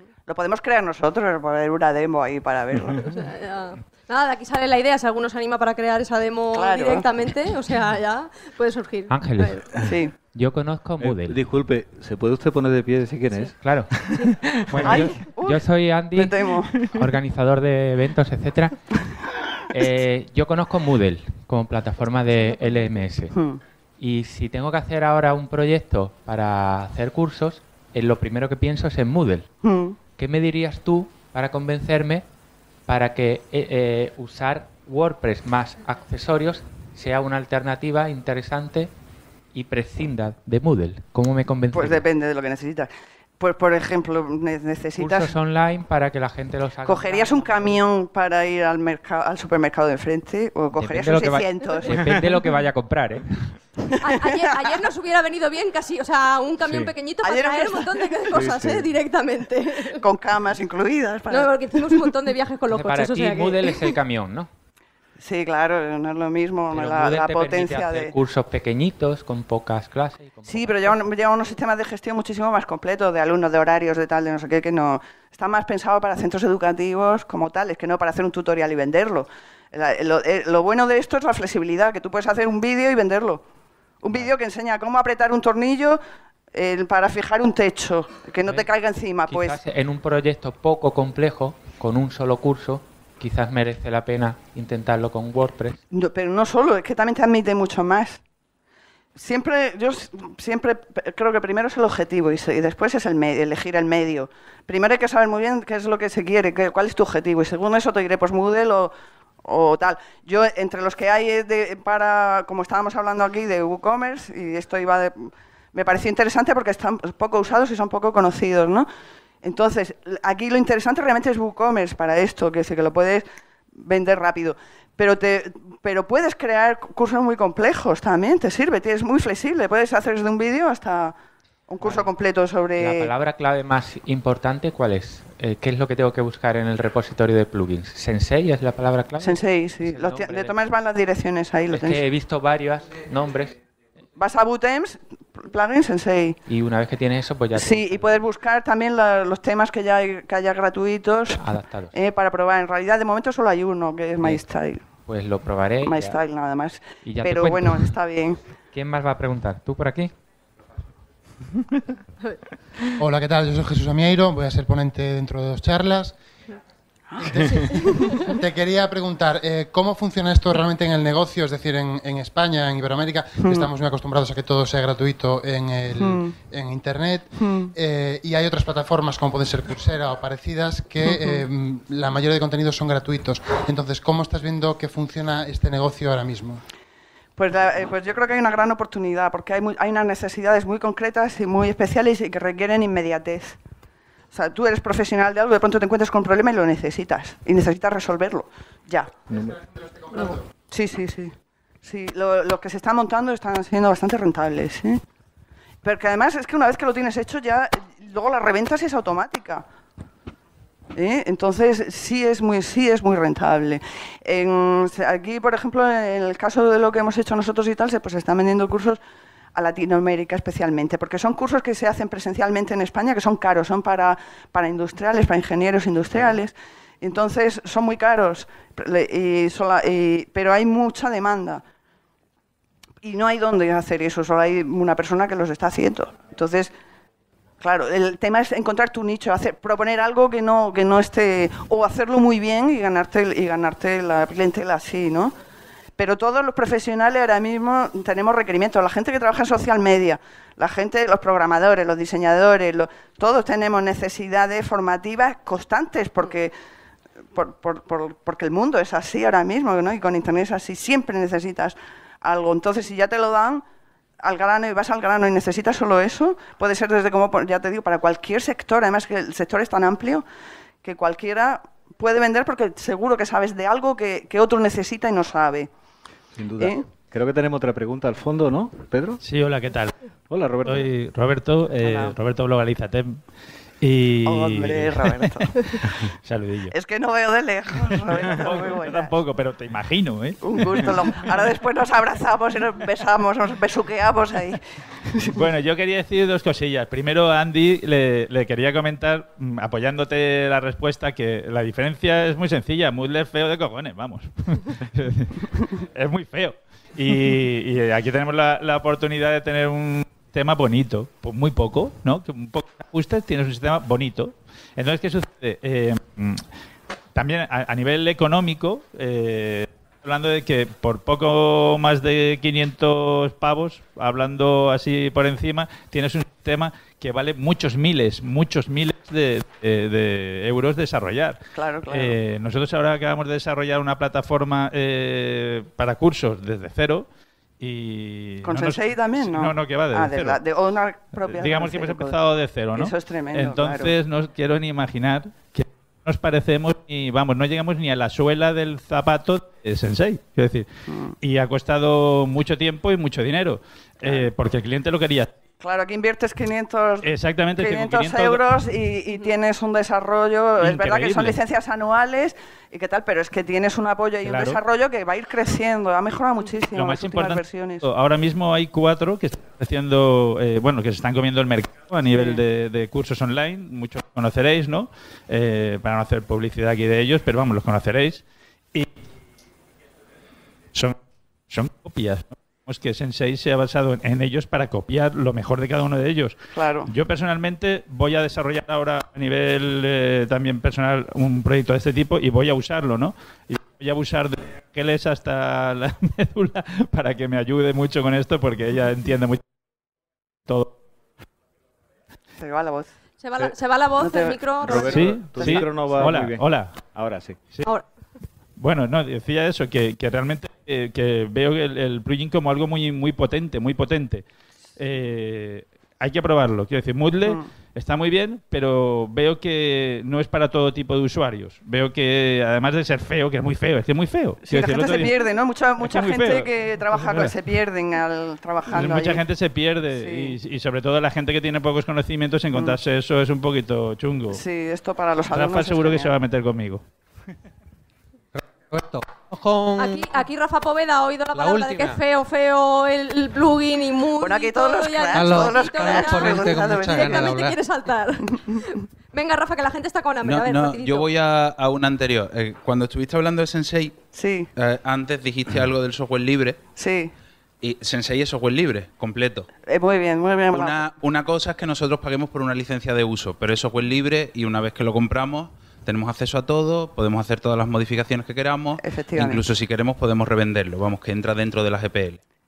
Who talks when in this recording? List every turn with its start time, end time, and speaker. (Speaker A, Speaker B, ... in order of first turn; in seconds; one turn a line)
Speaker A: 0.3-3.1
Speaker B: 3.0-9.7
Speaker A: 6.5-7.0
Speaker C: 9.1-11.4
Speaker A: 9.8-10.1
Speaker D: 11.0-15.2
Speaker C: 13.6-23.4
Speaker A: 14.8-15.6
Speaker A: 16.1-16.8
Speaker A: 23.3-23.6
Speaker C: 24.0-29.5
Speaker A: 29.6-30.0
Speaker C: 30.1-32.2
Speaker C: 32.9-38.9
Speaker C: 39.5-42.0
Speaker A: 41.7-42.9
Speaker A: 43.4-45.3
Speaker C: 45.0-47.8
Speaker A: 46.8-52.2
Speaker C: 50.7-53.6
Speaker A: 53.9-54.4
Speaker B: 54.0-60.0
Speaker D: 56.6-56.9
Speaker A: 57.2-58.3
Speaker D: 58.3-58.9
Speaker A: 59.9-62.0
Speaker B: 61.3-63.9
Speaker C: 62.7-64.5
Speaker A: 65.2-68.1
Speaker C: 66.7-71.0
Speaker A: 70.5-83.4
Speaker A: 84.0-86.0
Speaker A: 86.5-89.6
Speaker C: 89.3-95.8
Speaker A: 95.9-98.2
Speaker A: 99.2-108.9
Speaker A: 109.4-118.9
Speaker A: 119.4-131.1
Speaker A: 131.7-133.1
Speaker C: 131.8-132.1
Speaker C: 132.8-140.5
Speaker A: 139.2-142.0
Speaker C: 141.7-143.6
Speaker A: 144.2-146.4
Speaker C: 146.5-148.2
Speaker A: 147.5-154.8
Speaker C: 151.4-151.9
Speaker C: 155.0-156.2
Speaker A: 155.8-158.4
Speaker C: 157.0-157.9
Speaker C: 158.7-160.1
Speaker E: 163.0-166.2
Speaker A: 167.1-168.1
Speaker E: 167.2-186.6
Speaker B: 167.4-168.3
Speaker A: 173.4-173.7
Speaker A: 176.0-176.3
Speaker A: 177.4-177.7
Speaker A: 181.1-181.4
Speaker A: 187.4-193.6
Speaker A: 194.3-199.1
Speaker D: 199.3-199.6
Speaker B: 200.1-200.4
Speaker A: 200.7-205.0
Speaker A: 205.8-209.6
Speaker A: 210.9-219.0
Speaker A: 219.5-231.6
Speaker A: 233.0-236.7
Speaker A: 237.6-245.3
Speaker A: 246.0-256.5
Speaker A: 257.3-263.6
Speaker A: 264.2-270.2
Speaker A: 270.8-275.7
Speaker D: 276.3-279.2
Speaker A: 276.6-276.9
Speaker F: 279.2-279.9
Speaker D: 280.3-280.9
Speaker F: 280.6-283.2
Speaker A: 281.8-282.1
Speaker F: 283.8-286.7
Speaker A: 284.2-285.9
Speaker A: 286.7-289.1
Speaker F: 287.8-291.2
Speaker A: 290.4-295.4
Speaker F: 295.3-316.4
Speaker F: 317.1-337.1
Speaker A: 331.5-332.2
Speaker F: 337.6-340.4
Speaker A: 338.4-342.2
Speaker F: 341.2-350.7
Speaker A: 342.7-343.9
Speaker A: 350.9-351.1
Speaker F: 351.2-355.3
Speaker A: 354.0-354.3
Speaker A: 355.6-367.9
Speaker F: 357.0-358.4
Speaker F: 360.6-361.4
Speaker F: 364.2-364.6
Speaker F: 366.7-378.9
Speaker A: 372.1-372.4
Speaker F: 380.7-381.0
Speaker F: 381.5-399.4
Speaker A: 386.5-386.9
Speaker F: 400.5-400.7
Speaker A: 402.4-402.9
Speaker B: 403.2-405.0
Speaker A: 404.0-405.7
Speaker D: 404.6-407.4
Speaker F: 404.9-406.9
Speaker F: 408.6-414.2
Speaker F: 414.8-425.2
Speaker A: 424.4-429.2
Speaker F: 425.8-427.3
Speaker F: 428.7-434.4
Speaker A: 429.9-430.4
Speaker A: 434.3-436.1
Speaker F: 435.3-436.8
Speaker G: 438.3-440.2
Speaker B: 439.8-451.1
Speaker G: 441.3-442.0
Speaker A: 444.2-447.4
Speaker G: 445.1-447.6
Speaker H: 450.2-454.0
Speaker A: 454.1-454.5
Speaker H: 454.6-456.6
Speaker A: 456.8-457.1
Speaker H: 457.6-459.5
Speaker A: 459.6-460.9
Speaker H: 460.5-472.2
Speaker A: 468.8-469.4